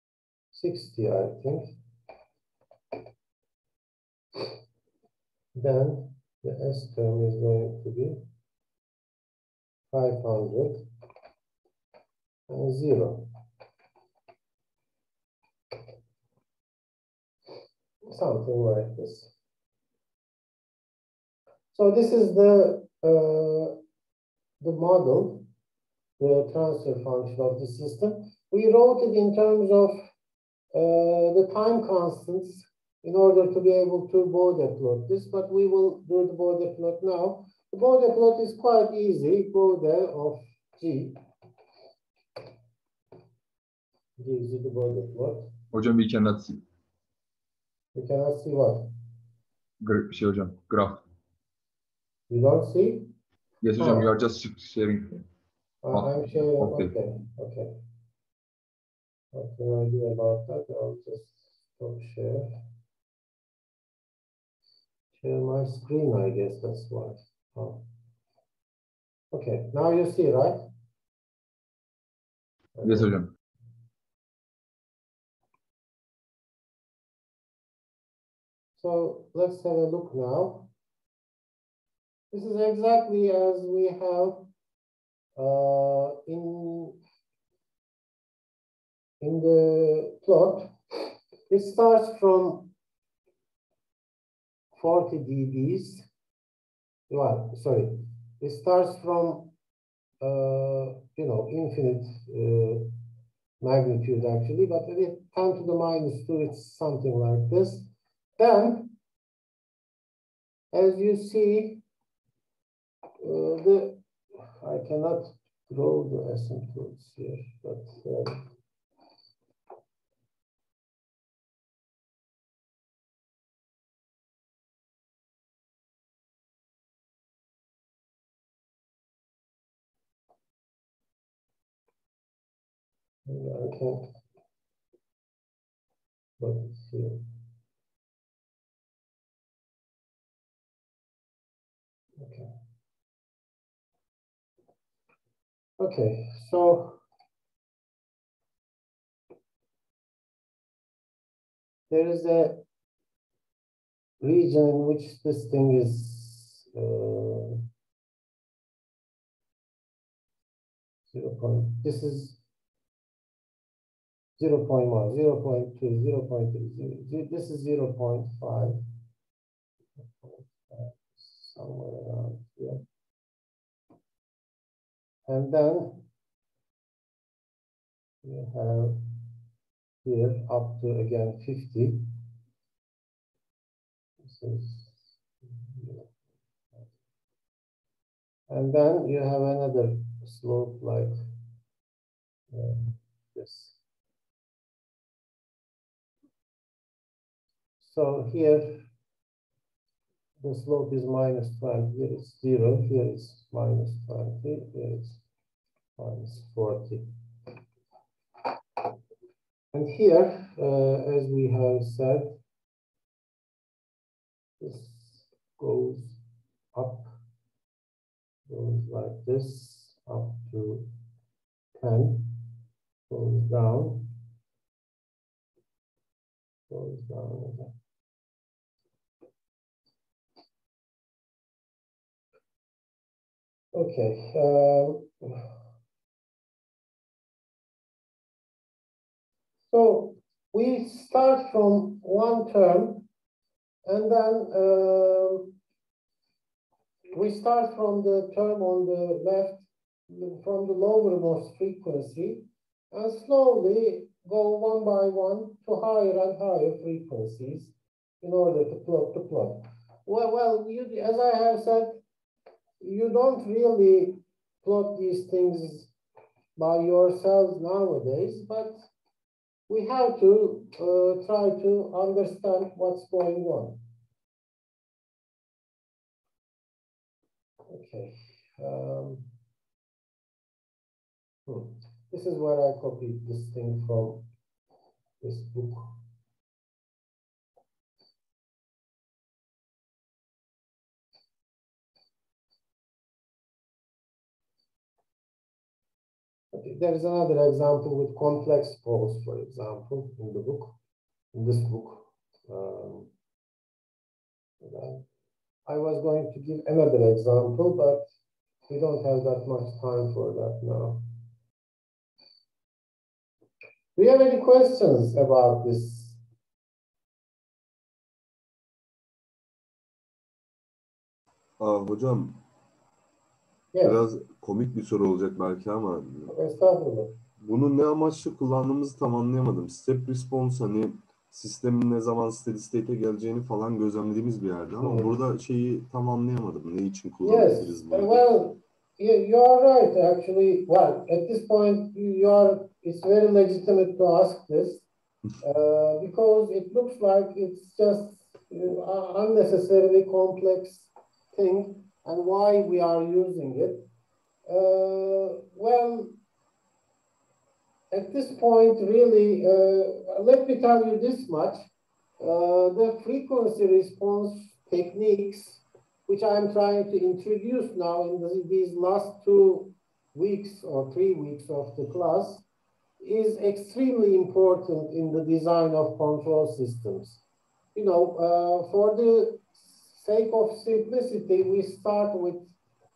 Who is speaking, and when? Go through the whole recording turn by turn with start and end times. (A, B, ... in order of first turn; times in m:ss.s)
0:00.5-0:01.7 A
0:05.5-0:08.2 A
0:09.9-0:10.8 A
0:12.5-0:13.2 A
0:18.1-0:19.3 A
0:21.7-0:23.8 A
0:24.6-0:25.4 A
0:26.2-0:30.0 A
0:30.7-0:41.2 A
0:44.2-0:45.5 A
0:45.7-0:46.6 B
0:47.9-0:48.9 A
0:49.8-0:51.0 B
0:52.3-0:53.1 A
0:53.6-0:55.2 B
0:55.8-0:57.7 A
0:55.9-0:56.9 B
0:59.3-1:02.5 A
1:05.1-1:07.8 A
1:09.3-1:10.6 A
1:12.8-1:13.1 A
1:12.8-1:13.3 B
1:18.8-1:20.7 A
1:22.3-1:24.5 A
1:25.4-1:27.0 A
1:29.2-1:30.7 A
1:31.5-1:32.7 A
1:34.7-1:36.1 A
1:37.1-1:39.5 A
1:40.2-1:42.9 A
1:43.6-1:48.9 A
1:50.7-1:51.8 A
1:53.2-1:54.0 A
1:54.6-1:58.4 A
2:13.2-2:14.0 A
2:16.4-2:17.2 A
2:22.2-2:22.5 A
2:25.8-2:27.0 A
2:31.9-2:32.6 A
2:34.2-2:37.6 A
2:41.1-2:42.4 A
2:44.4-2:48.8 A
2:50.2-2:52.8 A
2:55.3-2:56.1 A
2:58.2-2:59.3 A
3:00.0-3:02.0 A
3:04.2-3:05.0 A
3:05.7-3:06.1 A
3:08.5-3:11.1 A
3:12.5-3:13.8 A
3:17.8-3:18.8 A
3:20.4-3:25.2 A
3:26.0-3:27.1 A
3:29.7-3:32.4 A
3:34.6-3:36.2 A
3:36.7-3:37.1 A
3:38.5-3:40.9 A
3:41.8-3:42.5 A
3:43.1-3:44.1 A
3:46.7-3:47.7 A
3:53.7-3:55.4 A
3:59.7-4:03.1 A
4:03.8-4:05.6 A
4:07.1-4:22.0 A
4:22.8-4:25.9 A
4:26.6-4:28.8 A
4:29.7-4:33.8 A
4:37.7-4:39.3 A
4:41.4-4:44.3 A
4:45.2-4:45.9 A
4:56.5-5:00.7 A
5:01.3-5:03.1 A
5:04.6-5:05.0 A
5:05.6-5:08.1 A
5:08.7-5:11.0 A
5:14.0-5:16.2 A
5:21.6-5:22.4 C
5:23.7-5:24.0 A
5:23.8-5:26.3 C
5:26.3-5:27.1 A
5:27.4-5:38.2 C
5:34.8-5:35.1 A
5:37.2-5:44.9 A
5:45.4-5:53.8 A
5:54.5-5:56.1 A
5:57.9-6:01.6 A
6:02.2-6:12.4 A
6:13.0-6:17.2 A
6:17.7-6:22.5 A